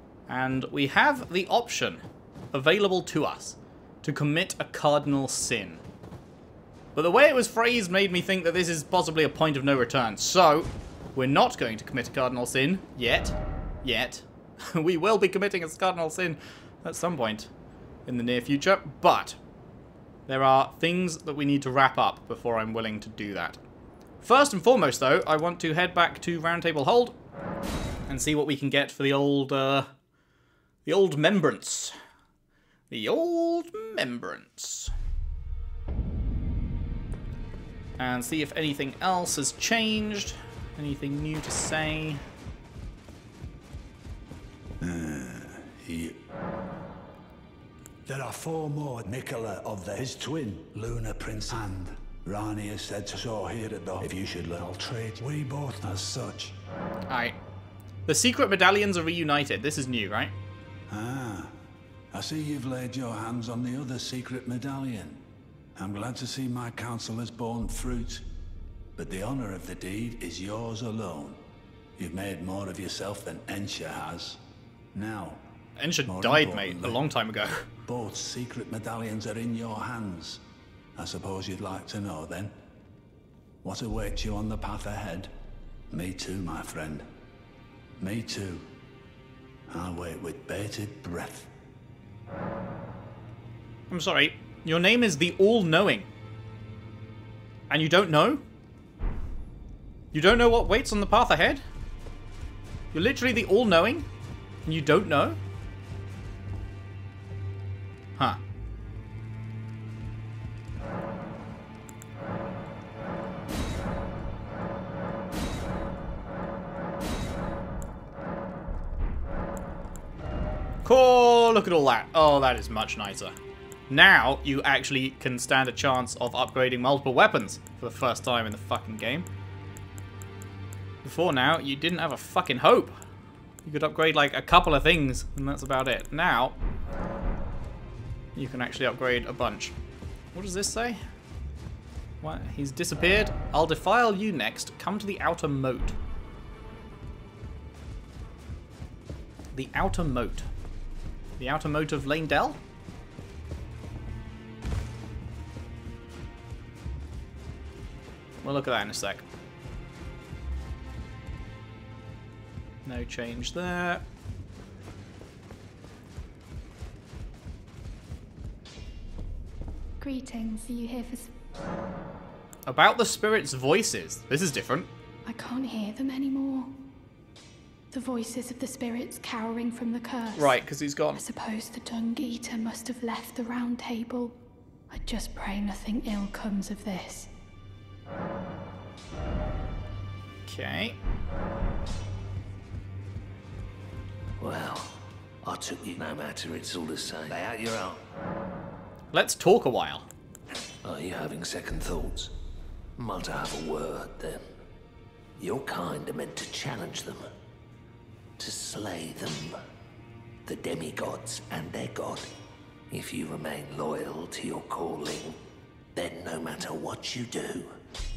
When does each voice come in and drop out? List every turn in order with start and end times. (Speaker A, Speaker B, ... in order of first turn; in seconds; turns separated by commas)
Speaker A: 0.3-5.8, Speaker A: 7.0-17.5, Speaker A: 18.1-19.4, Speaker A: 20.3-23.6, Speaker A: 24.2-27.2, Speaker A: 28.1-29.9, Speaker A: 30.9-31.9, Speaker A: 32.9-34.9, Speaker A: 38.0-42.2, Speaker B: 44.8-46.2, Speaker B: 48.1-56.5, Speaker A: 57.1-57.4, Speaker A: 58.1-60.4, Speaker B: 60.9-61.5, Speaker B: 62.1-65.2, Speaker B: 65.8-68.2, Speaker B: 69.0-71.4, Speaker B: 72.0-74.4, Speaker B: 74.9-75.4, Speaker A: 75.8-77.7, Speaker B: 76.1-77.0, Speaker B: 77.9-80.4, Speaker B: 81.0-82.5, Speaker B: 83.6-85.3, Speaker B: 85.9-87.1, Speaker B: 88.0-88.7, Speaker B: 89.7-91.5, Speaker A: 93.9-96.1, Speaker A: 97.7-98.5, Speaker A: 100.1-101.6, Speaker A: 102.9-104.1, Speaker A: 104.7-105.4, Speaker A: 120.8-123.3, Speaker A: 123.9-129.3, Speaker A: 131.0-132.9, Speaker A: 133.7-136.6, Speaker A: 138.4-139.8, Speaker A: 140.3-141.0, Speaker A: 142.2-146.0, Speaker A: 149.5-150.5, Speaker A: 151.4-152.6, Speaker A: 158.4-159.2, Speaker A: 162.8-164.1, Speaker C: 170.0-171.3, Speaker A: 172.7-174.9, Speaker C: 175.3-176.7, Speaker C: 177.9-180.6, Speaker A: 180.3-181.2, Speaker C: 181.1-184.4, Speaker C: 184.9-187.3, Speaker A: 190.4-191.0, Speaker D: 194.4-198.0, Speaker A: 199.1-200.1, Speaker D: 200.8-202.3, Speaker D: 203.0-204.4, Speaker D: 205.4-207.3, Speaker D: 208.4-209.6, Speaker D: 210.5-212.3, Speaker D: 212.9-215.4, Speaker D: 215.9-217.8